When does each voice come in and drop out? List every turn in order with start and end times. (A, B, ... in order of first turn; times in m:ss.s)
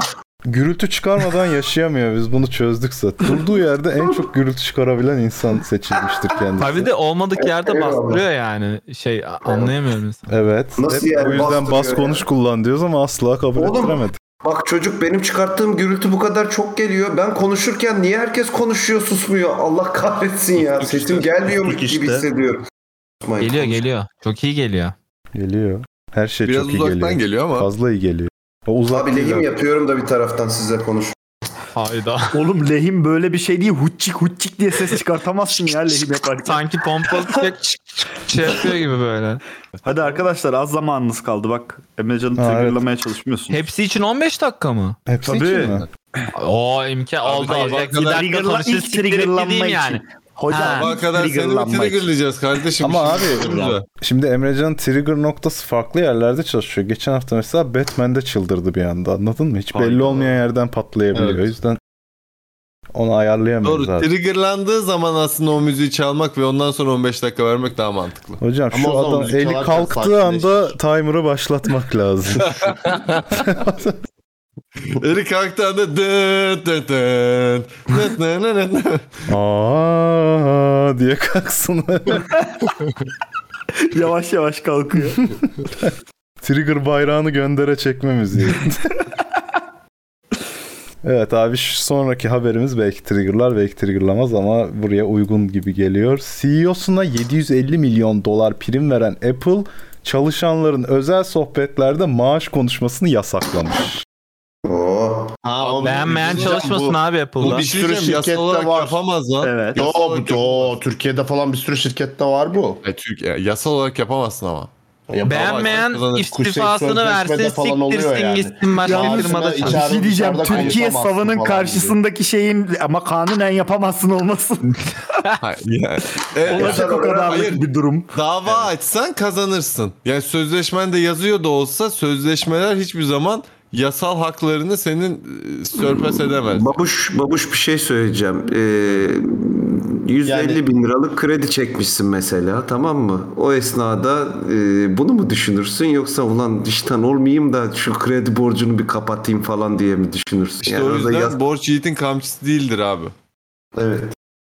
0:00.4-0:06.9 A
0:06.6-0:10.3 B
0:07.4-0:08.2 C
0:09.4-0:09.7 C
0:10.3-0:14.2 A
0:10.8-0:12.2 C
0:13.6-0:22.6 C
0:20.6-0:21.3 D
0:21.4-0:22.3 E
0:23.2-0:23.8 C
0:23.4-0:24.9 B
0:25.3-0:29.5 A
0:26.4-0:27.7 D
0:28.9-0:31.1 C
0:31.7-0:32.4 B
0:32.3-0:37.4 F
0:36.4-0:39.4 B
0:39.8-0:43.6 F
0:42.4-0:42.8 A
0:43.5-0:45.0 B
0:45.1-0:45.8 A
0:45.2-0:46.3 F
0:46.3-0:51.0 B
0:47.2-0:48.2 D
0:47.4-0:52.1 F
0:50.6-0:53.8 D
0:52.8-1:01.8 A
0:59.7-1:00.2 F
1:01.1-1:01.5 E
1:02.9-1:04.1 A
1:03.6-1:08.4 D
1:08.4-1:12.7 A
1:08.7-1:10.7 E
1:12.4-1:13.4 D
1:13.3-1:14.0 A
1:14.9-1:19.0 D
1:19.3-1:22.3 A
1:23.8-1:25.3 F
1:26.4-1:29.0 A
1:31.0-1:44.0 A
1:44.6-1:45.3 C
1:45.4-1:49.0 E
1:45.6-1:46.6 D
1:45.8-1:47.6 B
1:47.4-1:50.7 D
1:49.4-1:49.8 F
1:49.7-1:52.8 E
1:52.8-1:54.7 D
1:55.1-2:02.0 E
1:55.2-1:59.9 B
1:55.3-1:56.3 D
1:58.8-2:04.7 F
2:00.5-2:00.8 D
2:05.4-2:16.8 D
2:06.4-2:08.1 F
2:06.5-2:07.4 C
2:15.8-2:31.4 C
2:20.2-2:20.6 E
2:30.6-2:33.1 D
2:33.8-2:34.1 C